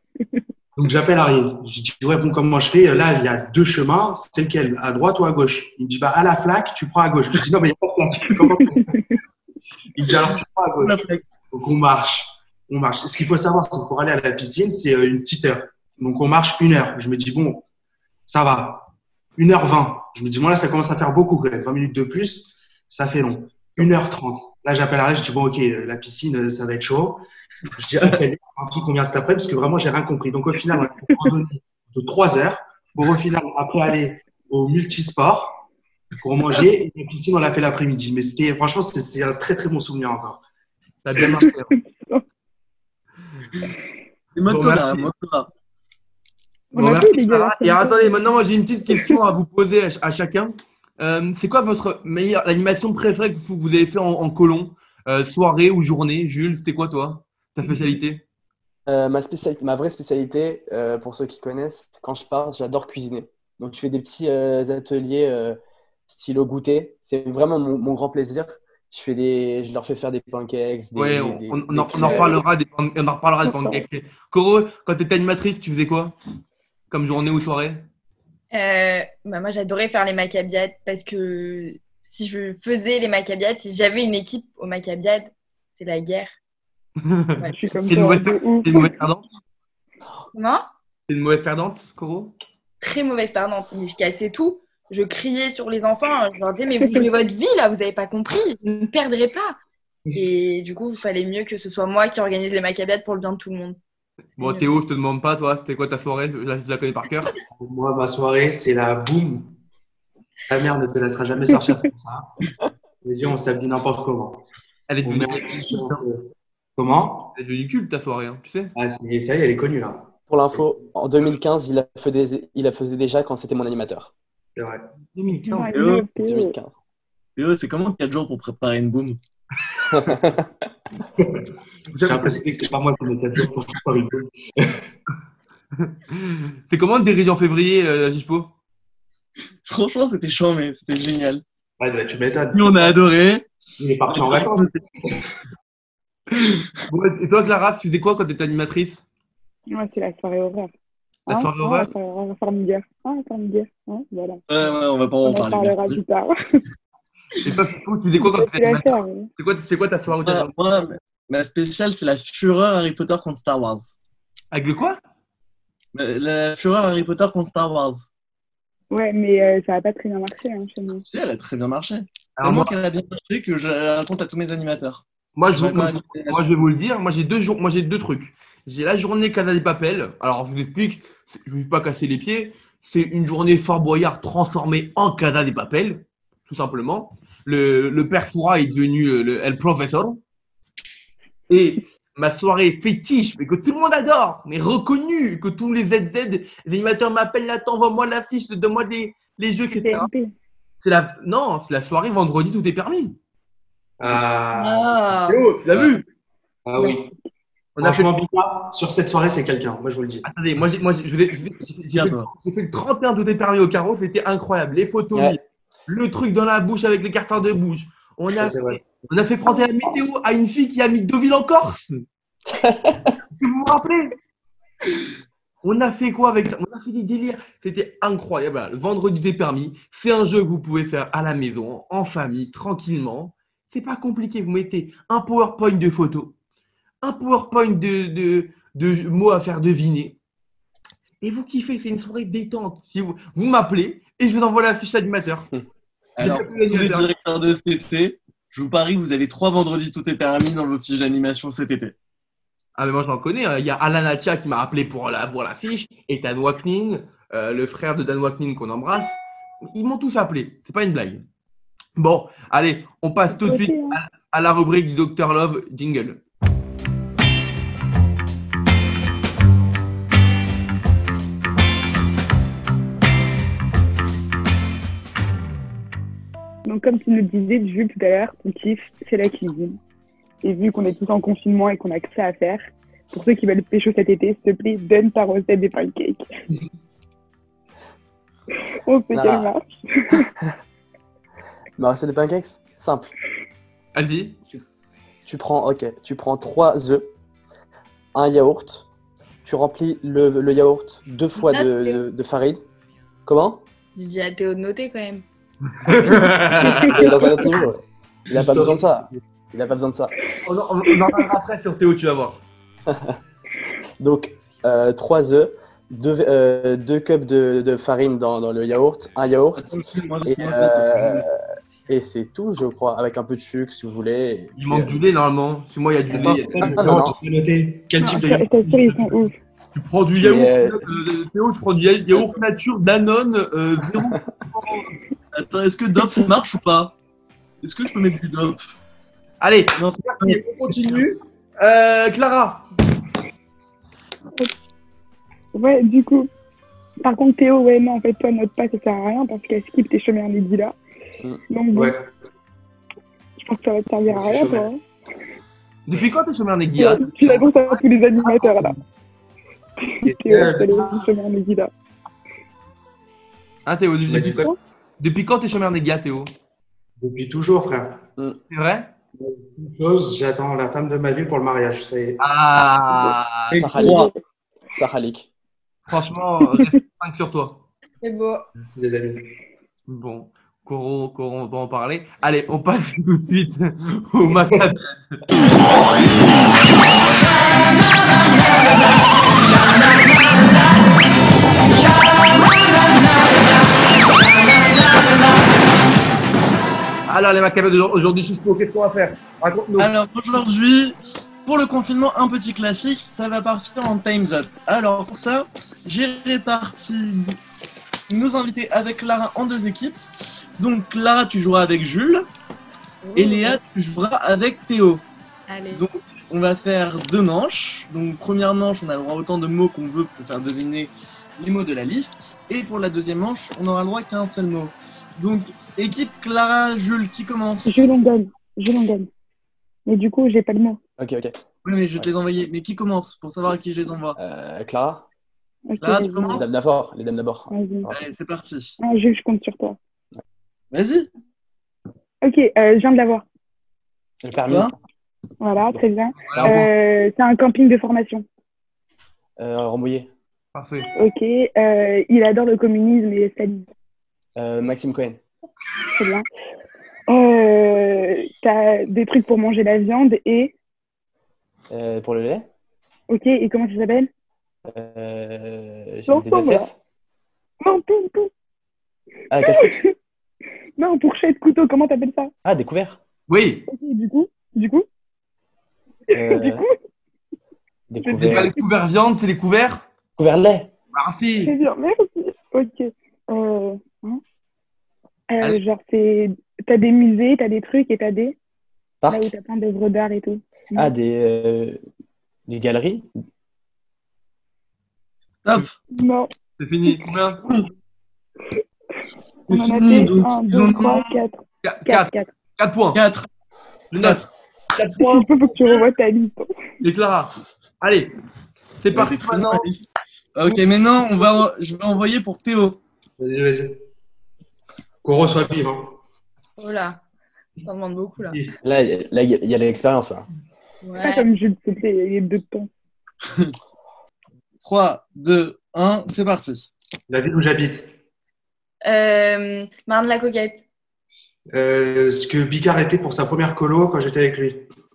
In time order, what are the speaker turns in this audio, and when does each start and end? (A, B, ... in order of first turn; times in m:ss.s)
0:00.8-0:09.0 A
0:10.0-0:17.6 A
0:10.1-0:11.3 B
0:18.3-0:27.2 A
0:27.8-0:35.6 A
0:36.2-0:40.4 A
0:41.0-0:41.7 C
0:41.1-0:41.4 A
0:41.2-0:42.2 D
0:44.4-0:45.5 B
0:44.5-0:45.1 C
0:46.7-0:48.2 D
0:46.8-0:58.2 C
0:48.9-0:49.2 D
0:58.9-1:05.6 E
1:06.1-1:12.4 E
1:11.0-1:16.2 C
1:12.0-1:12.3 D
1:13.4-1:13.8 D
1:16.9-1:17.8 C
1:18.5-1:26.4 F
1:27.0-1:29.2 C
1:27.5-1:28.9 D
1:30.3-1:30.6 F
1:31.1-1:32.3 C
1:32.8-1:39.6 F
1:40.1-1:43.8 F
1:44.4-1:44.7 F
1:44.4-1:47.3 C
1:47.5-1:49.5 A
1:50.5-1:52.3 A
1:53.0-1:54.4 A
1:54.9-1:56.0 C
1:55.0-1:57.4 A
1:57.4-1:58.7 C
1:58.8-2:00.6 A
2:00.3-2:04.1 E
2:04.6-2:04.8 A
2:05.1-2:05.7 C
2:05.5-2:06.6 D
2:05.7-2:06.1 B
2:06.1-2:06.8 E
2:07.4-2:09.2 B
2:09.9-2:10.5 E
2:11.2-2:14.8 A
2:11.9-2:12.4 C
2:15.8-2:18.5 C
2:19.7-2:21.4 B
2:21.8-2:23.0 A
2:22.5-2:23.5 B
2:23.8-2:25.3 A
2:24.1-2:24.8 B
2:26.9-2:29.0 C
2:29.7-2:30.7 D
2:31.3-2:31.9 C
2:31.3-2:34.4 D
2:34.5-2:36.0 B
2:35.2-2:36.6 D
2:37.4-2:40.5 C
2:38.2-2:39.3 D
2:40.2-2:44.0 B
2:44.5-2:45.0 C
2:45.9-2:48.1 B
2:48.9-2:51.1 D
2:51.1-2:56.6 B
2:52.4-2:52.8 C
2:55.4-3:10.2 C
3:11.5-3:20.1 C
3:19.7-3:20.3 D
3:20.8-3:23.2 C
3:24.0-3:25.0 A
3:24.6-3:25.4 F
3:25.4-3:26.0 C
3:26.7-3:27.1 A
3:27.8-3:28.1 C
3:27.8-3:30.3 A
3:30.2-3:42.0 C
3:31.9-3:32.3 B
3:38.4-3:38.8 A
3:42.5-3:43.1 E
3:43.4-3:44.2 C
3:45.6-3:56.3 C
3:57.0-4:00.2 C
4:01.2-4:05.5 C
4:06.2-4:11.9 B
4:06.2-4:07.1 C
4:12.8-4:21.2 C
4:22.0-4:26.2 C
4:23.3-4:24.0 D
4:36.7-4:39.8 D
4:40.4-4:46.2 D
4:48.9-4:50.2 D
4:49.1-4:49.5 E
4:50.1-4:50.4 E
4:51.8-4:53.1 E
4:54.0-4:54.4 C
4:55.2-4:57.1 E
4:58.1-4:58.9 E
4:59.4-5:02.6 E
5:01.4-5:02.0 F
5:03.2-5:03.6 E
5:04.0-5:05.2 F
5:05.8-5:07.1 C
5:06.6-5:10.2 E
5:06.9-5:07.6 D
5:08.3-5:09.2 A
5:10.4-5:12.4 C
5:12.9-5:13.2 E
5:14.0-5:25.0 E
5:19.6-5:21.2 B
5:24.6-5:27.0 C
5:26.1-5:27.2 E
5:26.1-5:29.2 A
5:28.0-5:29.4 D
5:29.8-5:34.9 C
5:30.1-5:30.8 E
5:35.3-5:37.0 B
5:37.6-5:38.7 B
5:39.4-5:42.7 C
5:39.8-5:41.0 B
5:45.5-5:46.3 D
5:47.0-5:50.8 D
5:51.5-5:51.9 D
5:51.8-5:52.1 A
5:53.4-5:54.8 D
5:54.1-5:54.7 A
5:55.9-5:58.8 C
5:56.7-5:58.8 D
6:00.0-6:01.7 D
6:00.0-6:01.1 A
6:03.7-6:04.5 C
6:04.1-6:04.5 A
6:05.0-6:06.3 C
6:07.0-6:08.0 A
6:08.5-6:08.9 C
6:09.2-6:12.2 A
6:12.2-6:14.1 C
6:13.5-6:14.1 E
6:13.8-6:14.1 D
6:14.7-6:15.3 E
6:15.9-6:17.6 C
6:16.5-6:16.8 D
6:18.0-6:18.5 F
6:18.6-6:19.3 A
6:19.9-6:25.2 C
6:37.1-6:39.9 C
6:39.8-6:47.4 B
6:48.1-6:50.0 B
6:50.6-6:52.3 B
6:53.0-6:53.6 F
6:53.2-6:55.0 B
6:55.5-6:55.8 F
6:55.7-7:07.8 B
7:07.6-7:09.1 D
7:09.9-7:10.8 D
7:11.0-7:11.4 E
7:11.6-7:14.2 B
7:14.2-7:15.0 E
7:15.7-7:16.5 D
7:15.8-7:16.5 B
7:16.3-7:18.0 E
7:17.5-7:17.9 D
7:17.9-7:18.8 B
7:18.8-7:19.8 D
7:20.7-7:21.1 B
7:22.2-7:23.2 D
7:24.2-7:24.7 E
7:25.4-7:28.2 D
7:26.2-7:26.7 C
7:29.4-7:30.1 E
7:30.5-7:30.9 C
7:31.0-7:33.7 D
7:34.4-7:35.2 E
7:36.0-7:36.2 D
7:37.1-7:40.5 D
7:41.7-7:42.5 E
7:43.1-7:44.1 D
7:44.7-7:46.8 E
7:46.1-7:46.7 D
7:47.6-7:48.3 D
7:49.3-7:49.8 E
7:49.4-7:49.9 D
7:50.8-7:52.3 D
7:52.4-7:53.0 E
7:53.3-7:53.7 C
7:53.7-7:54.9 D
7:56.1-7:56.8 D
7:56.1-7:56.7 E
7:57.9-7:58.5 E
7:58.0-7:58.6 D
7:58.2-7:59.9 C
8:00.2-8:00.7 E
8:00.9-8:01.5 C
8:01.4-8:04.2 D
8:05.3-8:08.4 D
8:09.0-8:09.3 E
8:09.1-8:10.9 D
8:10.8-8:11.8 E
8:12.5-8:13.1 E
8:15.4-8:15.8 B
8:15.9-8:16.3 D
8:16.6-8:17.4 C
8:19.5-8:21.1 B
8:19.5-8:22.3 D
8:21.6-8:23.0 C
8:22.9-8:23.3 B
8:23.9-8:25.9 C
8:24.0-8:24.2 B
8:25.0-8:26.5 D
8:26.8-8:28.2 C
8:28.8-8:29.7 C
8:28.9-8:32.8 B
8:33.2-8:33.8 A
8:35.0-8:36.0 A
8:36.6-8:37.0 F
8:37.6-8:38.4 F
8:38.6-8:40.2 E
8:40.8-8:41.2 F
8:41.0-8:42.7 D
8:44.6-8:46.7 B
8:47.1-8:47.9 A
8:48.8-8:50.6 F
8:51.5-8:54.7 A